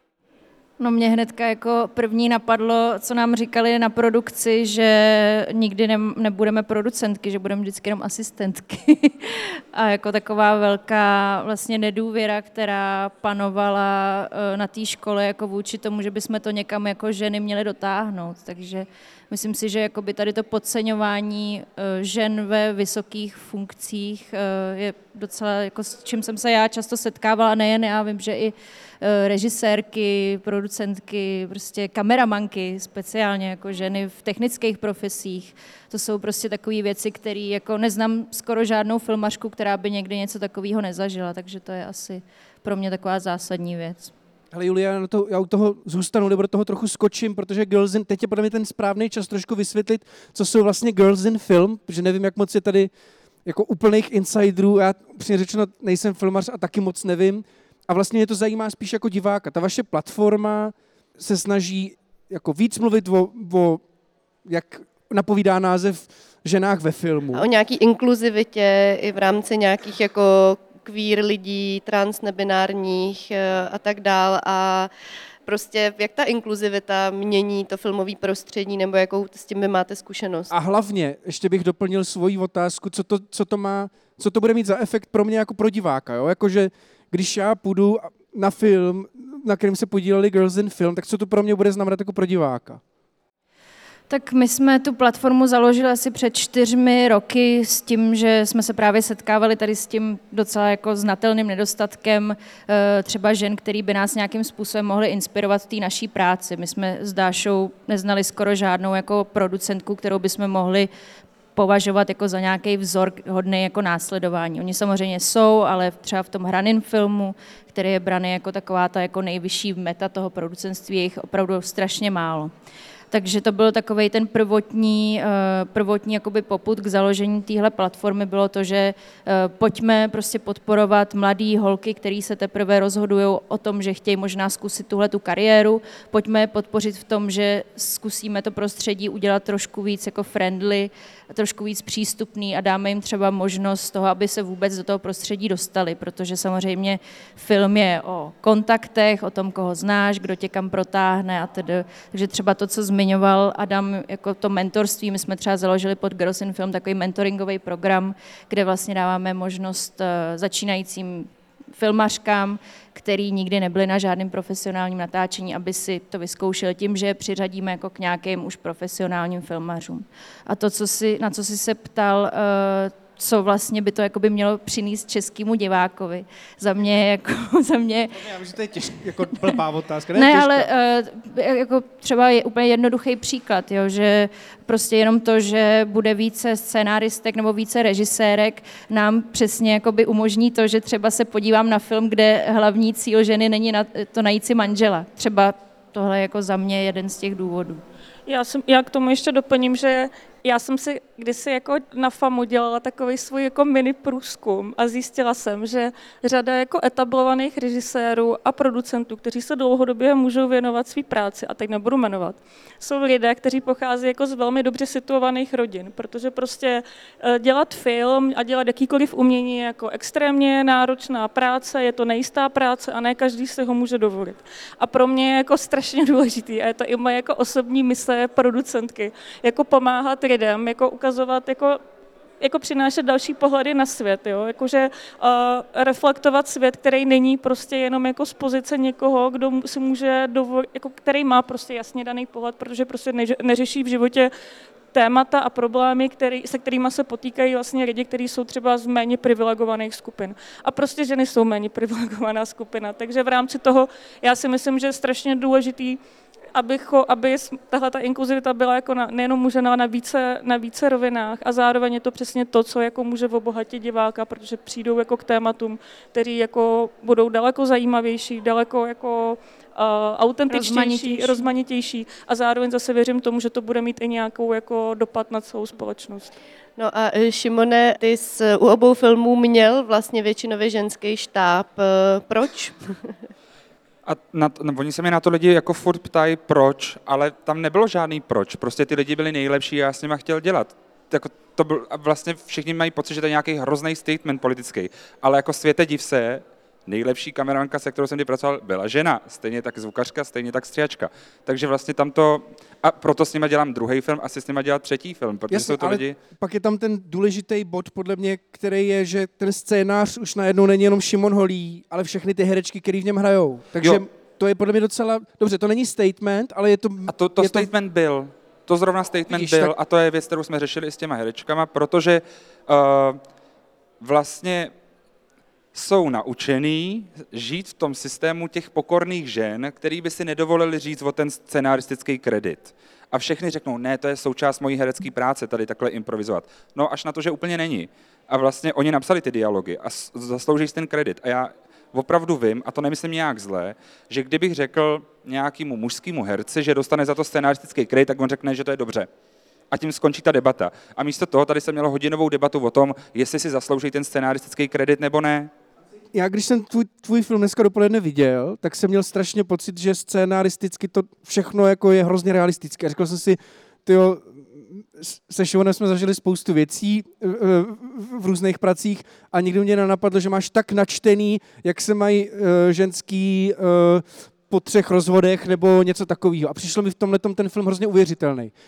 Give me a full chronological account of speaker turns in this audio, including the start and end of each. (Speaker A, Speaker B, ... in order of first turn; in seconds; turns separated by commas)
Speaker A: 0.8-44.1, Speaker B: 44.5-52.9, Speaker B: 53.4-63.8, Speaker B: 64.5-67.5, Speaker C: 67.3-74.9, Speaker C: 75.5-80.5, Speaker B: 80.5-92.8, Speaker A: 94.1-110.9, Speaker A: 111.5-122.5, Speaker A: 123.1-178.2, Speaker B: 178.1-180.7, Speaker A: 180.1-197.8, Speaker D: 198.3-231.8, Speaker D: 232.4-244.3, Speaker D: 244.9-256.0, Speaker D: 256.5-276.3, Speaker A: 270.5-271.4, Speaker C: 276.8-283.1, Speaker E: 284.1-306.2, Speaker B: 305.5-317.7, Speaker E: 317.1-323.2, Speaker B: 319.3-319.7, Speaker E: 324.0-324.7, Speaker E: 325.7-349.1, Speaker E: 349.7-355.5, Speaker B: 356.1-378.5